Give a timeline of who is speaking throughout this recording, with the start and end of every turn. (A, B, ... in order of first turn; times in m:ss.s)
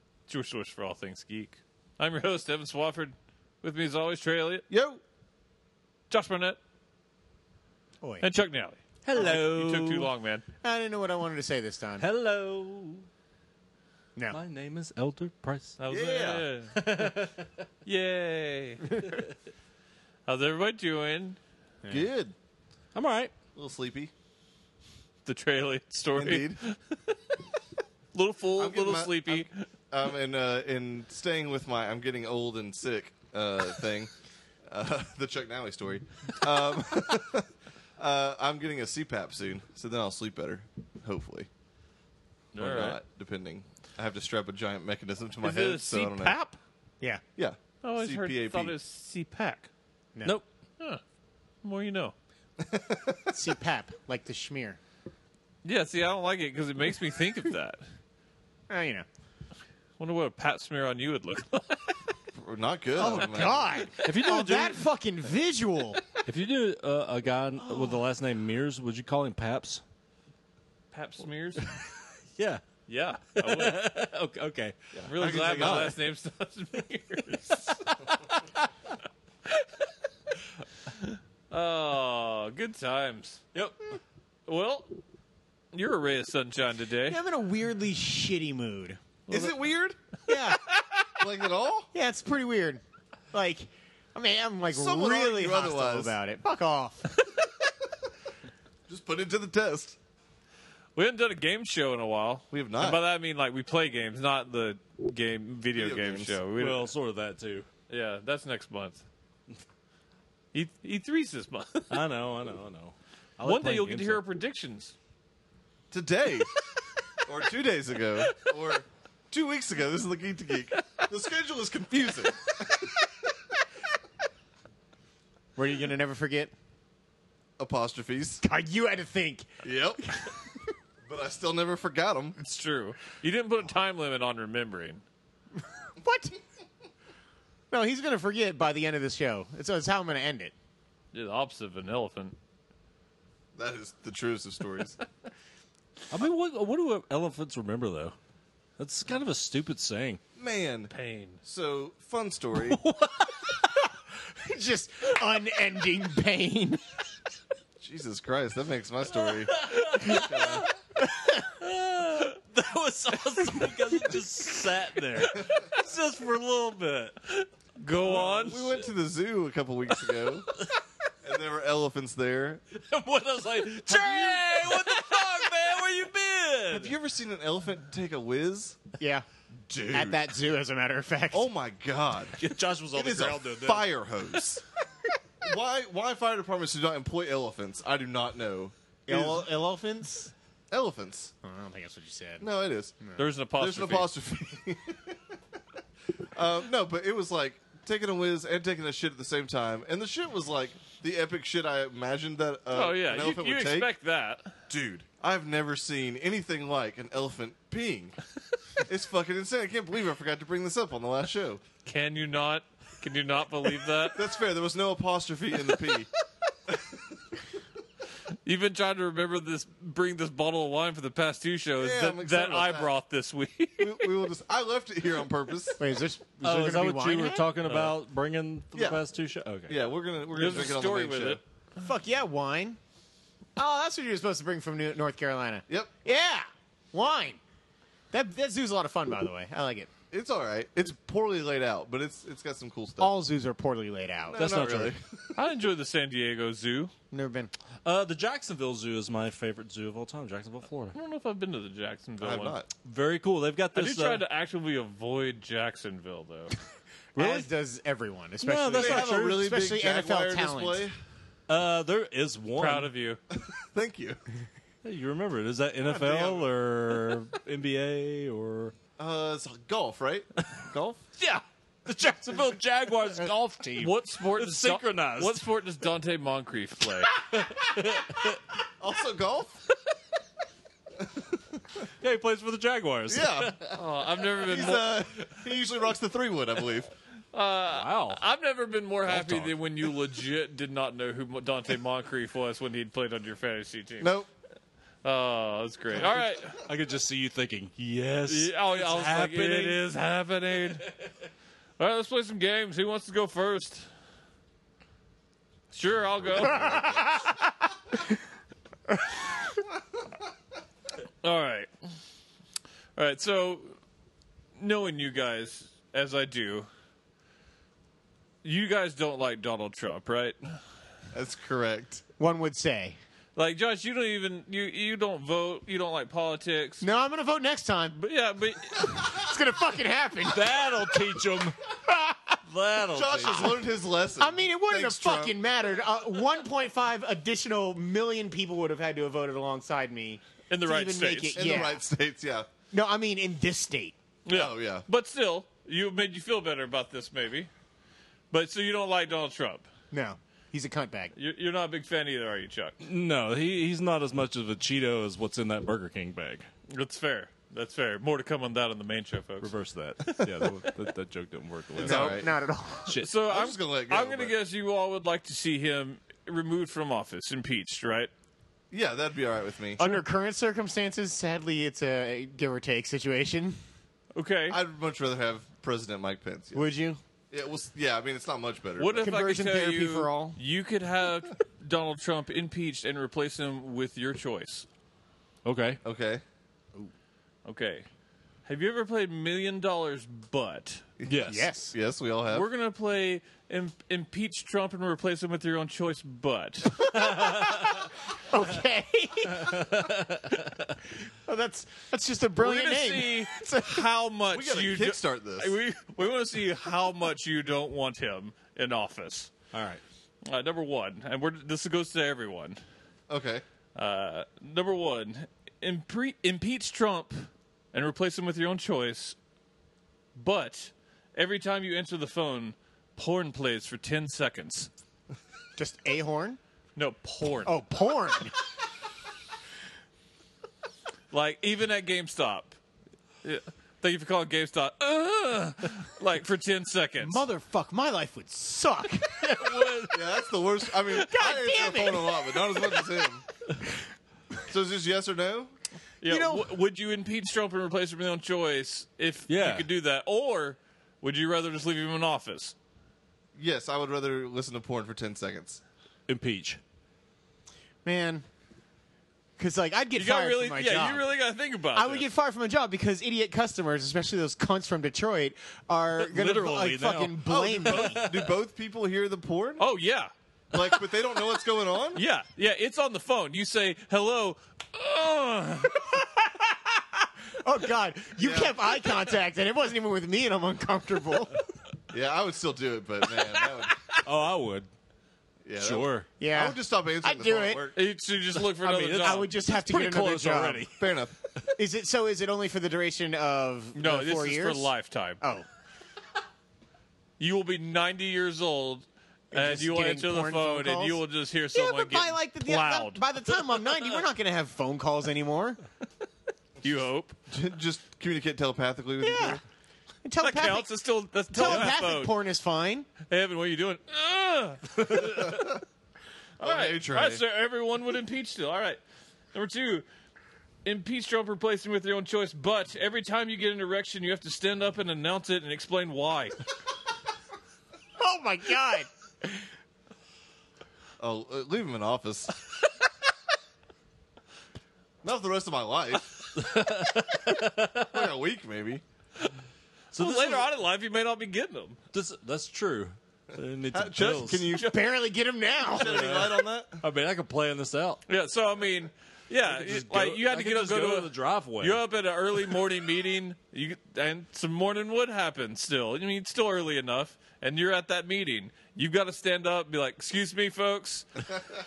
0:00.3-0:04.6 A
0:04.7-0:05.0 B
0:06.1-0:06.6 A
0:08.0-0:08.3 C
0:08.2-0:10.4 A
0:09.0-0:10.1 D
0:10.6-0:12.1 C
0:12.0-0:13.1 D
0:14.3-0:15.8 D
0:15.8-0:17.2 A
0:15.9-0:16.5 B
0:16.8-0:17.5 D
0:17.8-0:19.2 A
0:20.3-0:21.4 A
0:21.9-0:22.4 B
0:23.0-0:23.3 D
0:23.6-0:24.1 B
0:25.2-0:27.4 A
0:26.2-0:26.6 B
0:28.1-0:29.7 A
0:28.6-0:34.1 B
0:34.7-0:41.5 B
0:42.5-0:43.0 A
0:42.6-0:46.3 B
0:45.4-0:46.6 A
0:47.4-0:48.8 B
0:47.8-0:49.7 A
0:51.6-0:52.1 A
0:52.6-0:53.2 B
0:53.3-0:54.8 C
0:55.6-0:57.8 A
0:58.7-0:59.1 C
1:00.0-1:02.0 A
1:02.4-1:03.9 B
1:03.0-1:06.0 C
1:04.0-1:04.9 D
1:06.2-1:09.8 D
1:10.9-1:11.6 A
1:12.4-1:12.6 D
1:12.9-1:13.9 A
1:13.4-1:14.8 D
1:15.0-1:16.0 B
1:15.0-1:17.8 A
1:15.6-1:15.9 D
1:17.3-1:18.4 D
1:20.9-1:23.6 A
1:24.5-1:24.9 A
1:25.7-1:27.2 A
1:27.1-1:29.0 C
1:29.3-1:29.6 A
1:29.3-1:30.0 B
1:30.3-1:30.8 C
1:31.2-1:31.9 B
1:31.9-1:37.1 C
1:34.7-1:36.2 B
1:38.9-1:40.0 B
1:41.0-1:46.9 A
1:42.5-1:43.0 B
1:45.8-1:46.4 B
1:46.6-1:47.7 D
1:47.9-1:49.0 A
1:50.5-1:52.0 A
1:51.9-1:54.2 D
1:53.4-1:54.9 A
1:55.9-1:56.5 B
1:57.2-2:02.6 B
2:05.6-2:06.5 C
2:07.6-2:08.4 B
2:08.4-2:09.5 C
2:09.6-2:10.1 B
2:11.0-2:12.4 B
2:12.4-2:15.0 A
2:16.0-2:16.4 C
2:17.7-2:20.5 C
2:21.1-2:22.4 A
2:23.6-2:25.0 B
2:26.1-2:28.2 D
2:28.8-2:30.2 D
2:30.4-2:30.9 B
2:30.9-2:31.4 A
2:31.4-2:32.8 B
2:32.6-2:33.5 D
2:34.4-2:36.8 C
2:37.8-2:40.7 B
2:39.2-2:40.7 D
2:41.4-2:47.2 D
2:45.4-2:45.6 B
2:47.3-2:48.8 A
2:48.0-2:50.5 B
2:48.2-2:48.7 D
2:51.2-2:52.6 B
2:52.8-2:56.9 D
2:53.9-2:54.9 B
2:56.7-2:58.8 B
2:59.0-2:59.3 C
2:59.7-3:00.3 B
2:59.9-3:01.5 C
3:01.3-3:02.4 B
3:02.4-3:03.9 D
3:02.9-3:04.6 B
3:05.4-3:09.5 B
3:09.1-3:10.3 C
3:10.7-3:11.3 B
3:11.4-3:12.5 C
3:12.4-3:13.0 B
3:13.2-3:14.1 A
3:13.6-3:15.2 B
3:16.3-3:23.9 B
3:22.7-3:24.6 A
3:24.7-3:28.2 B
3:28.8-3:31.6 B
3:31.8-3:34.2 A
3:34.2-3:36.1 B
3:36.7-3:37.0 B
3:38.4-3:44.1 A
3:41.8-3:42.9 B
3:43.8-3:45.8 B
3:45.8-3:47.5 C
3:46.4-3:49.8 D
3:47.7-3:48.0 A
3:48.7-3:49.0 B
3:49.7-3:51.4 B
3:50.3-3:51.4 A
3:51.8-3:52.8 C
3:53.6-3:57.4 C
3:58.1-3:59.9 C
4:00.1-4:03.1 B
4:03.0-4:04.5 C
4:04.3-4:05.4 B
4:04.4-4:05.0 D
4:05.4-4:06.9 A
4:07.1-4:07.5 C
4:07.8-4:11.0 D
4:10.9-4:12.6 A
4:12.2-4:12.7 B
4:12.8-4:14.2 D
4:13.7-4:16.6 A
4:17.2-4:20.9 C
4:17.2-4:17.4 A
4:18.4-4:19.4 D
4:18.7-4:21.0 B
4:21.5-4:22.9 D
4:22.6-4:23.2 A
4:23.3-4:24.2 B
4:24.8-4:28.7 D
4:25.9-4:26.5 B
4:29.0-4:31.0 B
4:31.2-4:35.4 D
4:33.8-4:37.1 A
4:37.3-4:38.4 D
4:38.8-4:39.6 B
4:41.0-4:41.6 B
4:42.0-4:43.6 D
4:43.1-4:43.8 B
4:43.8-4:45.1 A
4:44.4-4:46.9 B
4:47.3-4:54.1 A
4:47.7-4:48.2 D
4:49.1-4:49.6 D
4:54.0-4:54.3 B
4:55.0-4:56.6 A
4:56.0-4:56.2 B
4:56.1-4:59.8 D
4:58.3-5:00.9 A
5:01.8-5:03.9 A
5:05.7-5:07.2 A
5:06.5-5:07.5 C
5:11.2-5:11.7 A
5:13.0-5:13.8 A
5:14.6-5:16.7 A
5:18.4-5:20.6 A
5:21.1-5:22.0 B
5:22.2-5:23.0 C
5:23.4-5:26.9 A
5:26.8-5:28.0 C
5:27.9-5:29.2 A
5:28.8-5:30.9 C
5:30.2-5:31.6 D
5:31.9-5:32.4 C
5:32.5-5:33.6 D
5:32.9-5:35.4 B
5:34.2-5:41.8 C
5:40.5-5:41.4 A
5:41.3-5:42.5 B
5:42.7-5:44.0 C
5:44.2-5:47.5 A
5:44.3-5:44.9 B
5:48.3-5:49.7 A
5:49.9-5:51.1 C
5:51.2-5:52.8 A
5:52.8-5:56.5 D
5:56.7-5:59.5 A
5:59.4-6:03.1 D
6:00.1-6:00.4 A
6:01.8-6:02.3 B
6:01.8-6:03.0 C
6:03.0-6:08.1 A
6:03.3-6:04.4 B
6:08.7-6:09.9 B
6:09.8-6:13.6 C
6:14.2-6:14.6 A
6:14.5-6:16.7 B
6:16.5-6:17.0 C
6:17.3-6:19.1 B
6:18.8-6:24.7 A
6:19.0-6:20.4 C
6:25.4-6:25.8 D
6:25.8-6:26.2 B
6:27.4-6:27.9 A
6:28.5-6:30.8 A
6:31.0-6:32.5 B
6:31.1-6:31.5 D
6:31.3-6:31.8 C
6:32.3-6:36.9 A
6:36.9-6:37.8 C
6:38.3-6:40.0 C
6:39.4-6:40.7 D
6:41.3-6:43.9 C
6:42.4-6:49.3 A
6:44.3-6:45.5 B
6:49.5-6:49.8 D
6:50.2-6:52.6 A
6:53.1-6:53.4 B
6:53.8-6:59.2 A
7:00.2-7:04.7 A
7:05.6-7:06.4 C
7:06.8-7:07.6 A
7:07.4-7:08.4 C
7:11.1-7:12.6 A
7:13.2-7:17.2 A
7:17.0-7:19.3 C
7:19.2-7:20.0 D
7:19.4-7:19.7 A
7:19.9-7:23.3 B
7:21.0-7:22.9 C
7:24.5-7:25.5 B
7:26.0-7:32.6 A
7:26.1-7:26.5 C
7:29.3-7:29.7 D
7:33.4-7:35.6 B
7:36.1-7:36.6 D
7:37.8-7:38.3 C
7:39.4-7:41.1 C
7:40.0-7:42.1 A
7:41.7-7:48.0 C
7:46.0-7:48.4 D
7:47.3-7:49.6 B
7:49.6-7:50.1 A
7:50.5-7:52.0 B
7:52.0-7:55.9 A
7:55.9-8:01.4 C
7:58.2-7:58.6 B
8:01.9-8:03.8 B
8:04.0-8:04.7 D
8:05.4-8:07.8 B
8:05.6-8:06.1 D
8:06.2-8:07.6 C
8:07.7-8:09.3 A
8:08.5-8:11.5 D
8:09.0-8:10.7 C
8:10.8-8:11.1 B
8:11.6-8:15.5 C
8:13.7-8:15.2 A
8:17.2-8:23.0 A
8:19.3-8:21.0 C
8:21.5-8:25.6 C
8:26.6-8:27.2 A
8:27.3-8:29.4 B
8:29.0-8:29.4 C
8:30.0-8:30.7 C
8:30.2-8:32.2 A
8:31.3-8:32.9 C
8:33.1-8:35.6 A
8:35.0-8:35.6 B
8:36.4-8:38.8 A
8:36.4-8:37.2 B
8:39.3-8:39.9 A
8:40.6-8:46.4 A
8:48.0-8:49.4 C
8:51.0-8:52.3 B
8:55.0-8:56.1 B
8:56.3-8:58.0 D
8:57.8-8:58.8 B
8:59.9-9:01.8 A
8:59.9-9:00.5 D
9:01.9-9:04.5 D
9:03.7-9:04.7 B
9:04.5-9:06.0 C
9:05.7-9:06.8 B
9:05.8-9:08.0 D
9:08.1-9:21.1 A
9:09.4-9:11.8 D